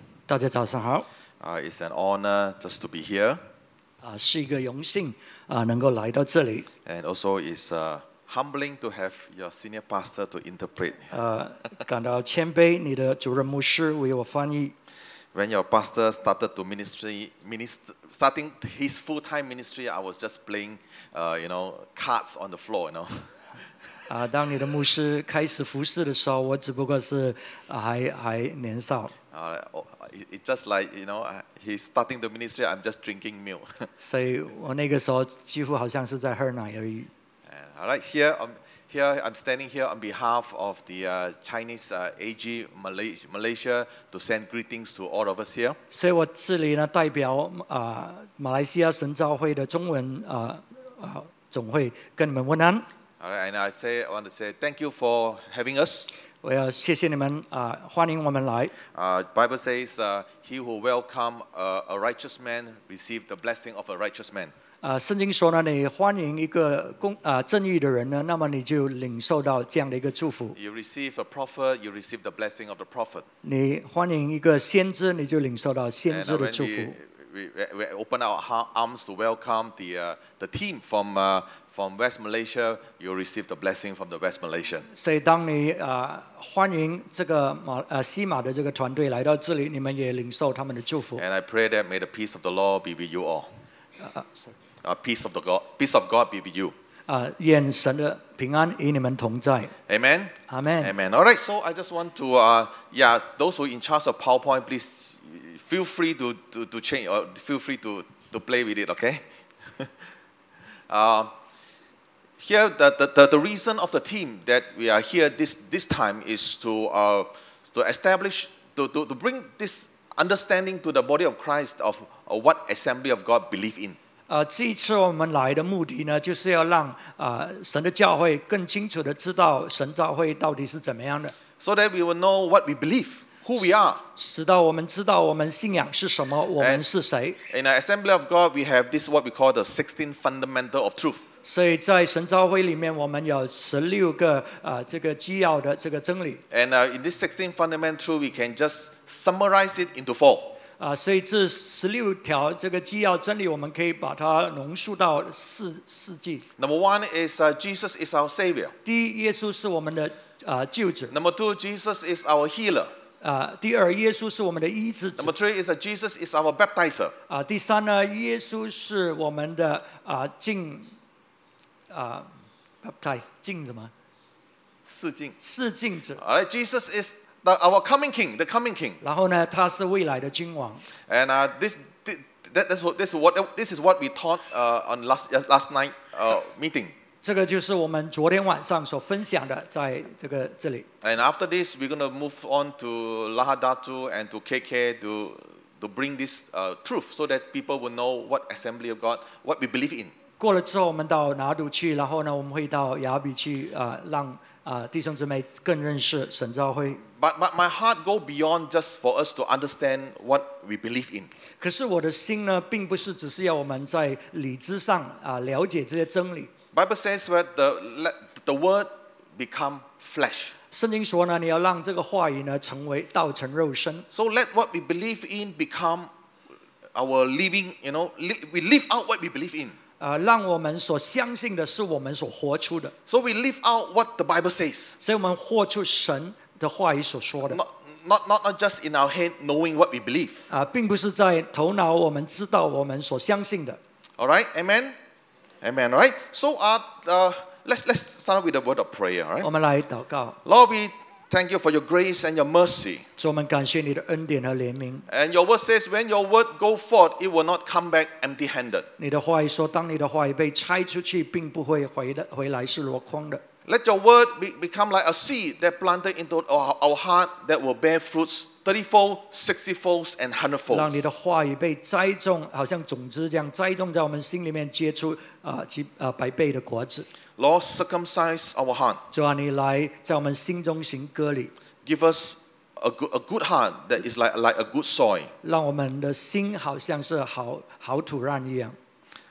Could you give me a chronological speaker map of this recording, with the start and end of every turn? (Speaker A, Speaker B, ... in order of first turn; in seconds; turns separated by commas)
Speaker A: 0.3-1.1, Speaker B: 1.4-3.4, Speaker A: 4.0-6.7, Speaker B: 6.8-11.2, Speaker A: 11.1-14.7, Speaker B: 15.3-23.4, Speaker A: 24.1-29.1, Speaker B: 29.3-33.9, Speaker A: 34.0-37.1, Speaker B: 37.5-45.8, Speaker A: 45.9-52.9, Speaker B: 53.2-56.1, Speaker A: 56.4-58.7, Speaker B: 58.9-64.5, Speaker A: 64.8-70.6, Speaker B: 70.6-73.2, Speaker A: 73.4-77.0, Speaker B: 76.1-84.9, Speaker A: 84.9-91.2, Speaker B: 91.2-93.5, Speaker A: 94.0-94.5, Speaker B: 94.8-96.7, Speaker A: 97.1-99.7, Speaker B: 99.9-109.2, Speaker A: 100.5-100.9, Speaker B: 110.9-111.3, Speaker B: 112.4-124.0, Speaker A: 124.3-131.3, Speaker B: 131.6-134.0, Speaker A: 134.2-137.4, Speaker B: 136.6-136.8, Speaker B: 137.5-141.2, Speaker A: 141.4-146.4, Speaker B: 146.5-150.5, Speaker A: 150.8-156.4, Speaker B: 156.6-158.7, Speaker A: 158.8-161.1, Speaker B: 161.1-162.9, Speaker A: 163.2-165.3, Speaker B: 165.2-167.1, Speaker A: 167.3-170.9, Speaker A: 171.9-172.3, Speaker A: 172.8-173.9, Speaker B: 174.9-175.3, Speaker A: 175.4-176.2, Speaker B: 176.2-179.0, Speaker A: 179.0-180.8, Speaker B: 181.1-186.9, Speaker A: 187.2-190.8, Speaker B: 191.0-200.1, Speaker A: 200.4-207.0, Speaker B: 207.0-211.3, Speaker A: 211.6-216.5, Speaker B: 216.7-220.5, Speaker A: 220.7-224.1, Speaker B: 224.1-226.1, Speaker B: 226.9-229.7, Speaker A: 230.0-232.9, Speaker B: 233.1-234.9, Speaker A: 235.0-237.6, Speaker B: 237.4-240.4, Speaker A: 240.5-243.8, Speaker B: 244.2-244.9, Speaker B: 245.6-249.5, Speaker A: 249.4-250.4, Speaker B: 250.4-253.0, Speaker A: 253.2-255.1, Speaker B: 255.1-258.9, Speaker A: 259.0-263.4, Speaker B: 263.6-271.0, Speaker A: 270.7-277.1, Speaker B: 277.4-279.0, Speaker A: 279.1-281.5, Speaker B: 281.8-285.3, Speaker A: 285.4-288.8